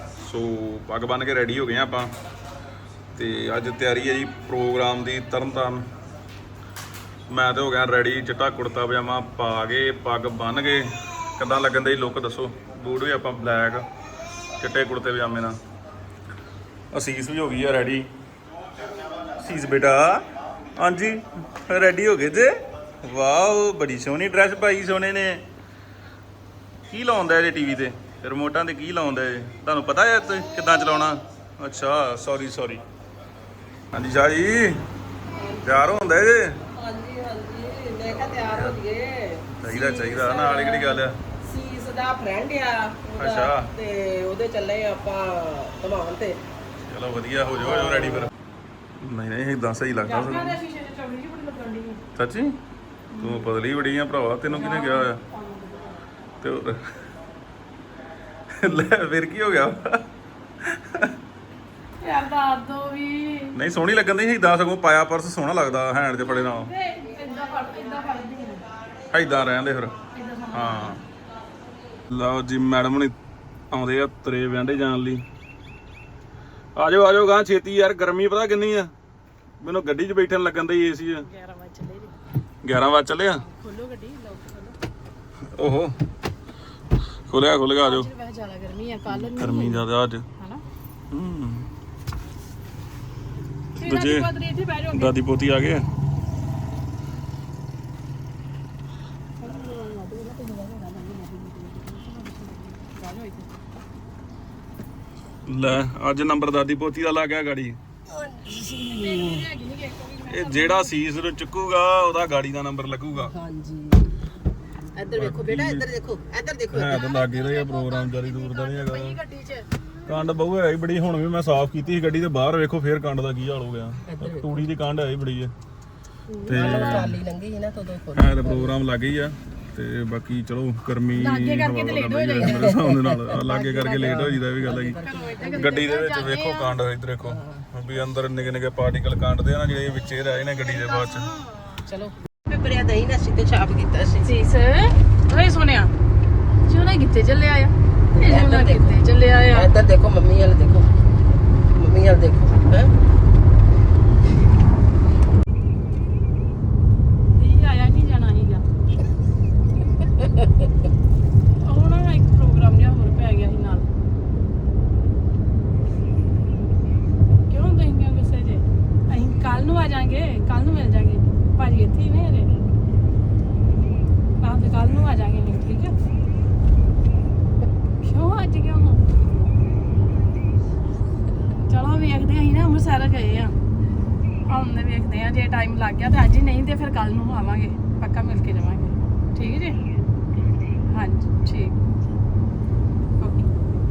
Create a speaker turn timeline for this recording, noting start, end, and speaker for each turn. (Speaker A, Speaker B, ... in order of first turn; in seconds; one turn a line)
Speaker A: 0.2-2.1
Speaker A: 3.1-5.9
Speaker A: 7.3-13.9
Speaker A: 14.6-15.6
Speaker A: 16.9-18.1
Speaker A: 19.4-20.2
Speaker A: 20.8-25.4
Speaker A: 26.9-32.8
Speaker A: 33.9-34.7
Speaker B: 35.3-46.4
Speaker A: 35.6-36.6
Speaker A: 38.1-38.8
Speaker A: 39.5-41.1
Speaker C: 39.7-40.8
Speaker A: 43.2-43.7
Speaker A: 46.9-48.3
Speaker B: 47.6-48.2
Speaker A: 49.0-50.6
Speaker C: 50.0-52.0
Speaker A: 52.1-52.6
Speaker C: 53.1-53.5
Speaker A: 53.2-55.2
Speaker C: 54.5-56.0
Speaker A: 56.4-56.8
Speaker A: 58.6-60.0
Speaker A: 60.6-61.1
Speaker C: 62.0-63.6
Speaker A: 63.5-66.7
Speaker C: 66.2-68.7
Speaker A: 69.1-70.0
Speaker C: 70.1-71.0
Speaker A: 70.5-71.0
Speaker A: 72.1-73.2
Speaker A: 73.7-75.2
Speaker A: 76.8-78.9
Speaker A: 79.6-81.3
Speaker C: 81.2-82.2
Speaker A: 82.6-83.4
Speaker C: 83.4-84.8
Speaker A: 85.5-85.9
Speaker A: 87.3-88.1
Speaker C: 87.8-89.8
Speaker A: 89.1-90.2
Speaker C: 90.4-90.6
Speaker A: 91.1-91.7
Speaker C: 93.8-95.2
Speaker A: 93.8-94.3
Speaker A: 94.9-95.8
Speaker C: 99.4-103.5
Speaker A: 105.5-107.8
Speaker B: 108.1-109.5
Speaker C: 108.8-110.9
Speaker A: 110.3-113.3
Speaker B: 113.3-114.2
Speaker B: 115.0-117.0
Speaker A: 115.2-115.9
Speaker A: 116.7-119.2
Speaker C: 116.9-119.7
Speaker A: 120.1-125.5
Speaker B: 124.0-124.6
Speaker B: 126.3-128.8
Speaker A: 126.5-127.2
Speaker C: 126.5-127.1
Speaker A: 128.1-135.0
Speaker C: 131.1-132.8
Speaker B: 132.4-135.8
Speaker C: 133.6-134.1
Speaker C: 135.0-136.8
Speaker A: 135.5-141.3
Speaker B: 137.2-137.7
Speaker C: 140.8-141.5
Speaker B: 141.8-144.3
Speaker C: 144.2-145.9
Speaker C: 146.6-149.7
Speaker B: 148.1-150.9
Speaker B: 151.7-152.9
Speaker C: 157.3-158.7
Speaker C: 161.6-163.9
Speaker C: 167.5-172.5
Speaker C: 174.4-175.9
Speaker C: 178.0-179.5
Speaker C: 181.5-183.6
Speaker C: 184.4-189.8
Speaker C: 190.9-191.8
Speaker C: 193.2-193.5